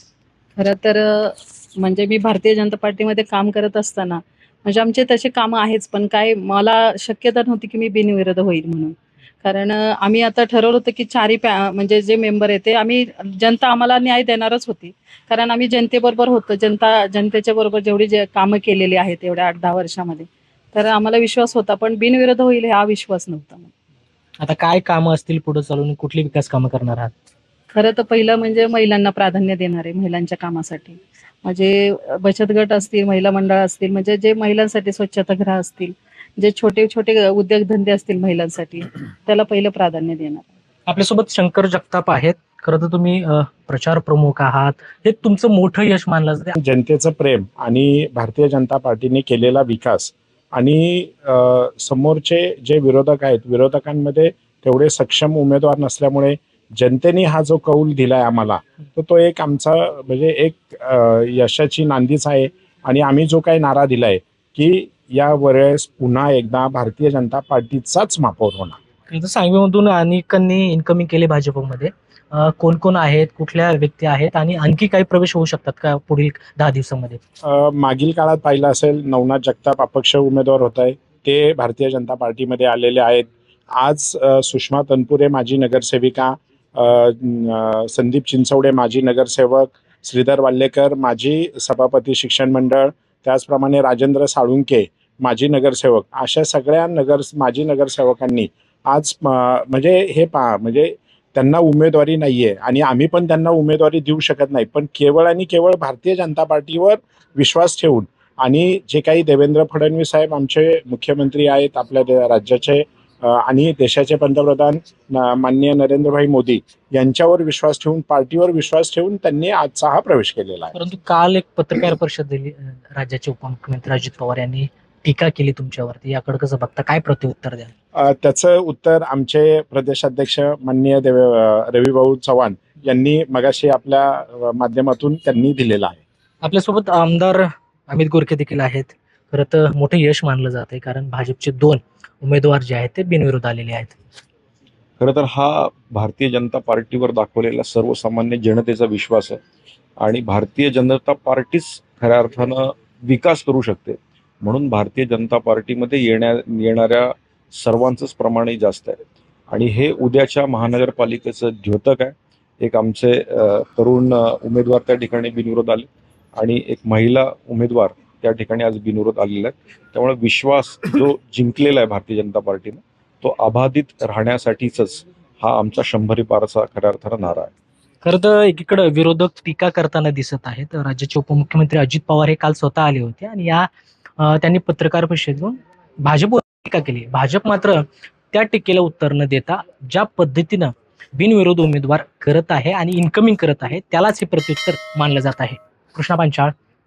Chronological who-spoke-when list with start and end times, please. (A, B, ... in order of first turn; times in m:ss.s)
0:00.6-0:23.7 A
0:24.4-0:27.1 B
0:27.7-0:40.5 A
0:40.9-0:46.6 B
0:46.6-1:08.8 C
1:09.1-1:17.2 B
1:17.4-2:00.7 C
2:00.7-2:07.7 B
2:07.9-2:16.0 C
2:16.4-2:24.0 B
2:25.0-2:29.4 D
2:30.0-2:57.5 D
2:58.0-3:03.7 B
3:04.2-3:16.5 B